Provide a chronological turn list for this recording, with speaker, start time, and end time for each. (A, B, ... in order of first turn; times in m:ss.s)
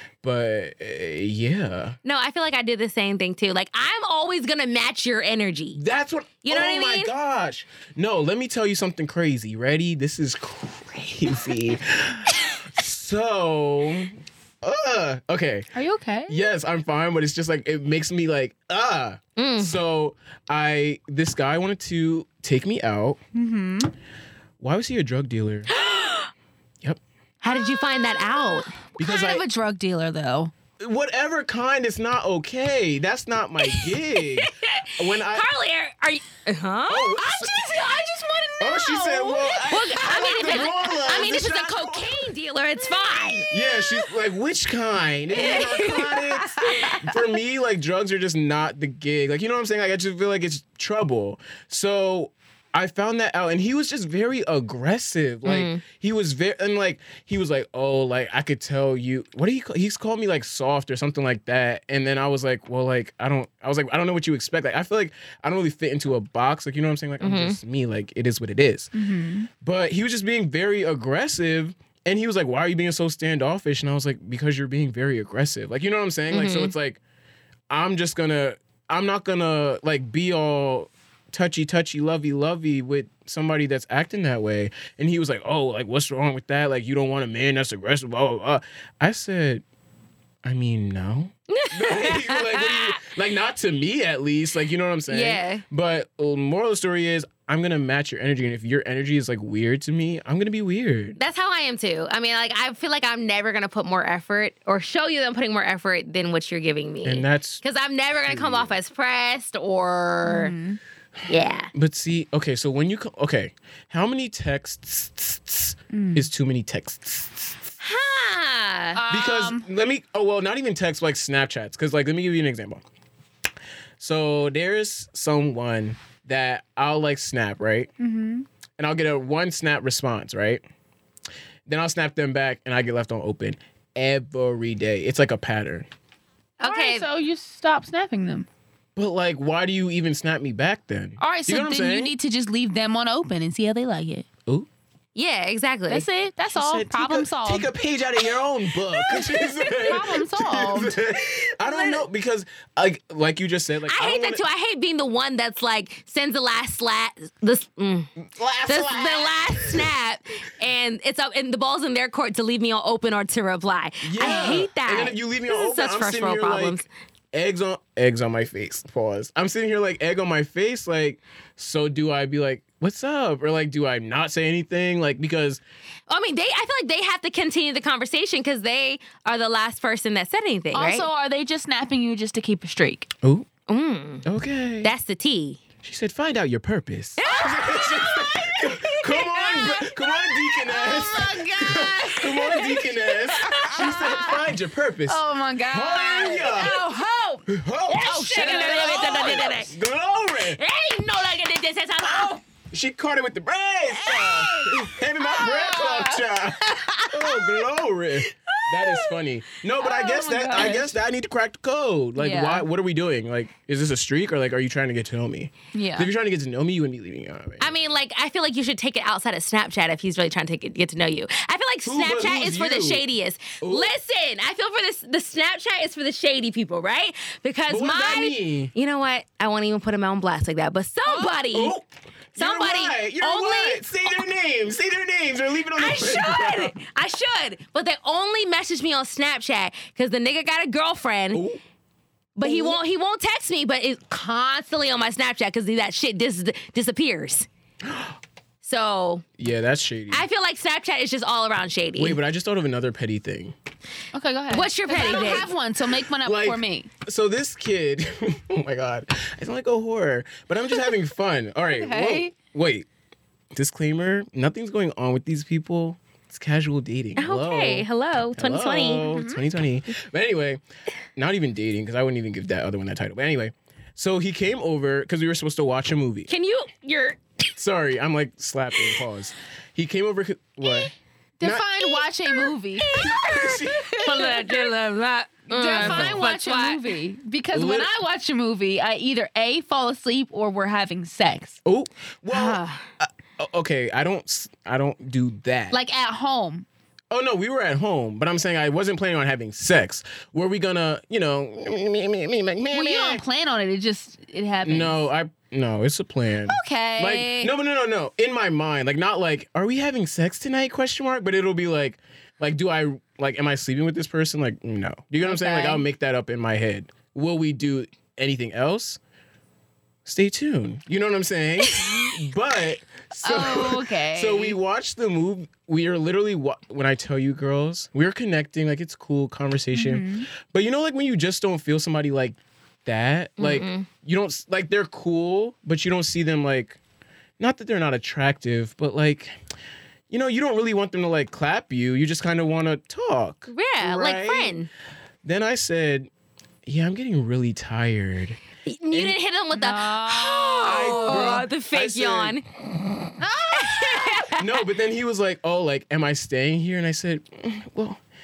0:00.2-0:02.0 A
0:02.0-0:05.8 B
0:05.7-0:15.7 A
0:06.4-0:07.1 B
0:15.7-0:16.5 C
0:16.3-0:23.2 A
0:19.4-0:19.8 B
0:23.3-0:23.9 C
0:24.6-0:25.7 A
0:25.7-0:26.3 B
0:27.4-0:28.8 B
0:29.0-0:29.4 A
0:29.0-0:30.5 C
0:30.8-0:35.5 A
0:33.6-0:37.7 B
0:36.9-0:37.8 A
0:37.2-0:41.2 C
0:38.6-0:42.3 A
0:39.6-0:43.5 B
0:43.5-1:08.9 A
0:45.3-0:47.1 C
0:45.4-0:46.1 B
0:55.4-0:55.8 B
1:07.2-1:07.6 B
1:08.9-1:09.5 C
1:09.5-1:17.0 A
1:16.3-1:16.7 B
1:17.7-1:29.6 A
1:30.4-1:41.2 A
1:31.5-1:33.0 B
1:35.1-1:35.6 B
1:41.2-1:50.5 B
1:47.0-1:47.6 A
1:48.3-1:48.7 A
1:50.2-1:50.8 C
1:51.3-1:51.7 B
1:51.7-1:57.7 A
1:55.9-1:56.2 C
1:57.8-1:59.0 B
1:58.9-1:59.6 C
1:59.1-2:02.8 A
2:04.0-2:07.9 A
2:08.0-2:08.4 C
2:08.8-2:10.6 A
2:11.7-2:15.9 A
2:16.6-2:17.0 B
2:16.6-2:18.5 C
2:19.0-2:22.1 A
2:21.2-2:24.2 C
2:25.1-2:26.0 B
2:25.9-2:27.7 C
2:26.5-2:34.4 A
2:29.1-2:30.9 C
2:31.6-2:32.0 B
2:33.8-2:38.1 B
2:38.3-2:39.9 A
2:38.6-2:46.8 B
2:44.0-2:55.6 A
2:44.2-2:44.6 C
2:56.1-3:01.1 B
3:00.7-3:03.1 C
3:03.2-3:03.5 A
3:03.7-3:04.2 B
3:04.2-3:04.9 A
3:04.8-3:05.6 B
3:05.8-3:16.8 A
3:07.2-3:09.8 B
3:09.2-3:14.4 C
3:13.4-3:14.3 B
3:15.1-3:17.5 C
3:17.5-3:20.6 A
3:17.9-3:19.7 B
3:18.0-3:19.4 C
3:20.4-3:22.4 B
3:22.0-3:37.7 A
3:24.0-3:27.2 C
3:28.6-3:29.1 B
3:29.8-3:30.9 C
3:32.2-3:32.6 C
3:35.7-3:36.1 C
3:37.6-3:51.7 B
3:41.8-3:43.0 A
3:43.6-3:43.9 A
3:47.7-3:48.7 A
3:51.4-3:56.7 A
3:52.4-3:54.1 B
3:55.7-4:01.4 B
4:01.3-4:01.6 A
4:02.4-4:07.5 B
4:02.4-4:02.8 A
4:07.8-4:08.1 A
4:08.6-4:09.2 B
4:09.4-4:10.2 A
4:10.1-4:12.2 B
4:12.0-4:13.5 A
4:14.1-4:16.9 C
4:14.5-4:15.5 B
4:16.2-4:22.8 A
4:21.8-4:22.3 C
4:23.5-4:30.6 A
4:27.2-4:29.2 B
4:29.1-4:29.4 C
4:31.2-4:36.3 A
4:36.3-4:37.2 B
4:37.6-4:41.6 A
4:41.4-4:44.7 C
4:41.8-4:46.9 B
4:42.9-4:44.3 A
4:45.5-4:51.6 C
4:45.8-4:46.2 A
4:47.5-4:47.9 A
4:51.6-4:55.8 A
4:52.3-4:52.8 B
4:55.7-4:56.6 C
4:57.1-5:03.2 A
5:02.7-5:05.0 C
5:04.6-5:19.0 A
5:06.5-5:07.5 C
5:15.2-5:15.8 C
5:20.0-5:36.8 A
5:23.2-5:24.6 C
5:29.7-5:30.3 C
5:33.4-5:33.9 B
5:37.4-5:39.4 A
5:40.1-5:44.6 A
5:43.5-5:44.7 B
5:45.2-5:46.1 A
5:46.6-5:48.4 A
5:48.7-5:52.4 B
5:48.9-5:49.2 A
5:49.5-5:51.4 C
5:50.6-5:52.4 A
5:53.2-5:54.3 C
5:53.6-5:54.5 B
5:54.3-5:58.0 A